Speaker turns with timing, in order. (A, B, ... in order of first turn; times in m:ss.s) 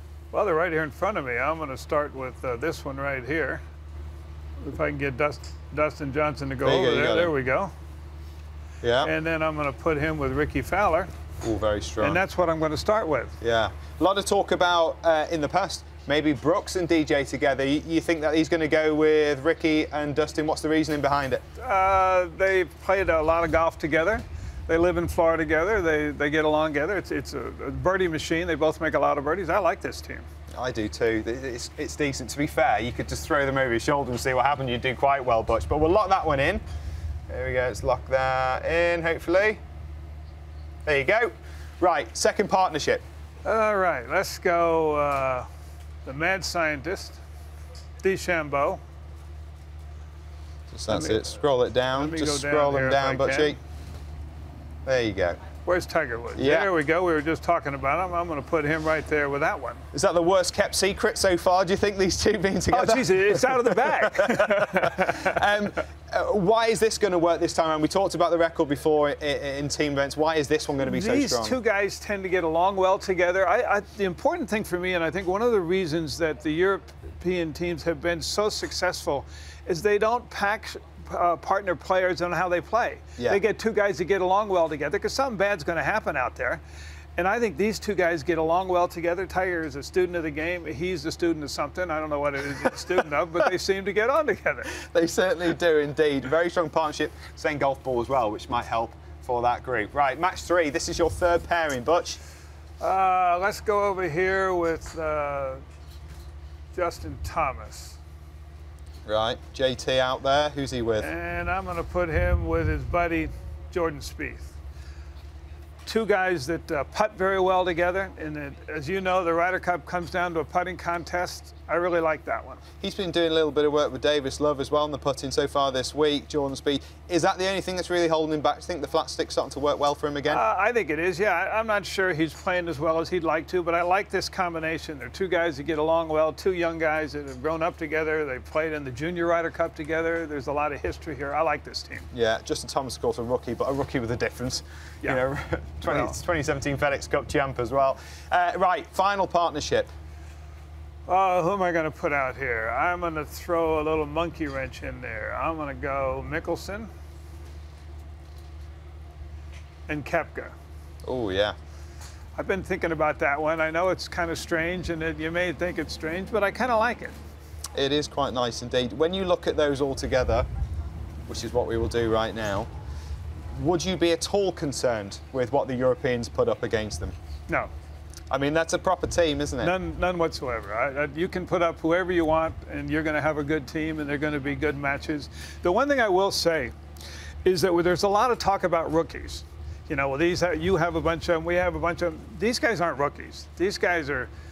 0:00.3-0:03.6 A
0:04.6-0:07.7 A
0:06.6-0:07.3 B
0:08.8-0:09.1 B
0:09.0-0:11.1 A
0:11.4-0:12.2 B
0:12.0-0:13.4 A
0:13.4-0:21.4 B
0:21.6-0:30.2 A
0:30.5-0:36.6 B
0:37.3-0:39.6 B
0:40.8-0:43.0 B
0:43.4-0:45.5 A
0:46.0-0:47.2 A
0:48.0-0:48.8 A
0:50.7-0:53.6 B
0:50.9-0:51.4 A
0:52.0-0:53.6 A
0:54.8-0:55.4 B
0:55.6-0:59.8 A
0:56.4-0:56.7 B
0:59.9-1:11.6 B
1:02.7-1:05.4 A
1:10.8-1:26.6 A
1:27.2-1:34.7 A
1:34.7-1:42.2 B
1:42.8-1:45.6 A
1:46.7-1:48.0 A
1:49.0-1:51.1 B
1:51.0-1:54.5 A
1:55.8-2:02.6 A
2:02.8-2:10.4 B
2:10.3-2:22.1 A
2:22.1-2:29.9 B
2:25.8-2:26.1 A
2:31.1-2:36.9 A
2:39.9-2:40.5 A
2:41.0-2:41.5 B
2:42.4-2:47.2 A
2:47.7-2:50.4 B
2:51.3-2:52.7 B
2:53.5-2:57.1 B
2:58.3-2:59.8 B
2:59.6-3:06.7 A
3:07.4-3:14.3 A